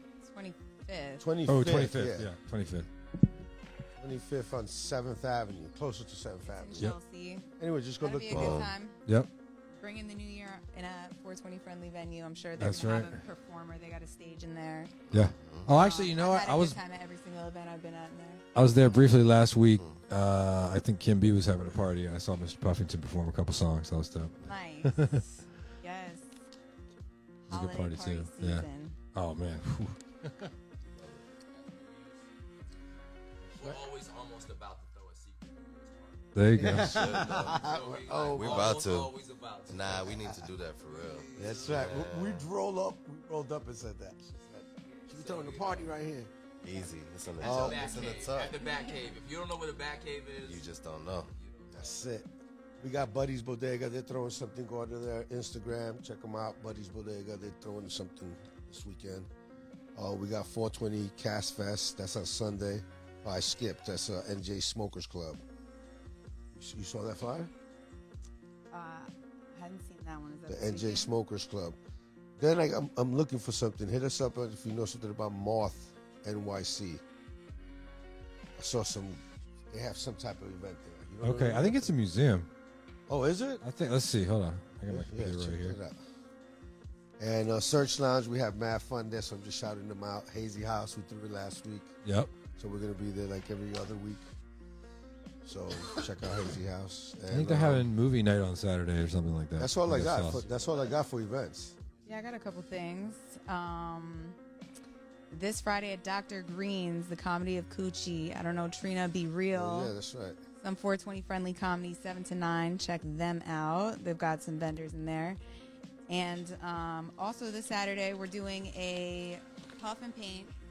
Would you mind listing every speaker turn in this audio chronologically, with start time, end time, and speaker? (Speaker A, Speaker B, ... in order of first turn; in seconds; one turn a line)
Speaker A: 0.2-1.3
Speaker B: 1.2-2.3
Speaker C: 1.4-2.9
Speaker B: 4.0-6.9
Speaker A: 6.4-7.5
Speaker B: 7.6-8.7
Speaker A: 8.0-9.0
Speaker D: 8.3-8.7
Speaker A: 9.7-14.9
Speaker C: 12.6-13.1
Speaker D: 15.1-15.7
Speaker C: 15.1-16.8
Speaker A: 15.7-18.4
Speaker C: 18.6-25.2
Speaker A: 24.4-26.4
Speaker A: 27.4-29.0
Speaker C: 27.5-30.5
Speaker D: 30.9-31.3
Speaker E: 31.5-32.6
Speaker E: 33.5-40.2
Speaker C: 36.4-37.3
Speaker B: 36.6-38.8
Speaker D: 36.6-39.1
Speaker D: 39.7-42.5
Speaker E: 40.8-42.1
Speaker B: 41.4-46.3
Speaker E: 44.9-46.0
Speaker D: 46.6-48.6
Speaker E: 47.3-50.7
Speaker B: 47.4-48.2
Speaker A: 48.6-49.0
Speaker D: 50.4-51.4
Speaker E: 51.4-52.0
Speaker B: 51.7-52.3
Speaker B: 52.8-59.3
Speaker B: 59.9-65.4
Speaker B: 66.5-67.5
Speaker A: 68.7-71.1
Speaker B: 70.5-71.8
Speaker B: 72.4-77.0
Speaker B: 78.6-81.9
Speaker C: 81.2-82.5
Speaker B: 83.1-83.6
Speaker C: 83.6-85.8
Speaker B: 84.9-86.0
Speaker B: 87.2-91.9
Speaker C: 92.0-92.3
Speaker B: 92.5-94.3
Speaker B: 95.4-97.9
Speaker C: 97.3-100.4
Speaker B: 99.6-101.8
Speaker A: 102.1-104.4
Speaker A: 105.3-109.9
Speaker B: 109.5-110.4
Speaker A: 110.6-115.4
Speaker A: 116.1-120.5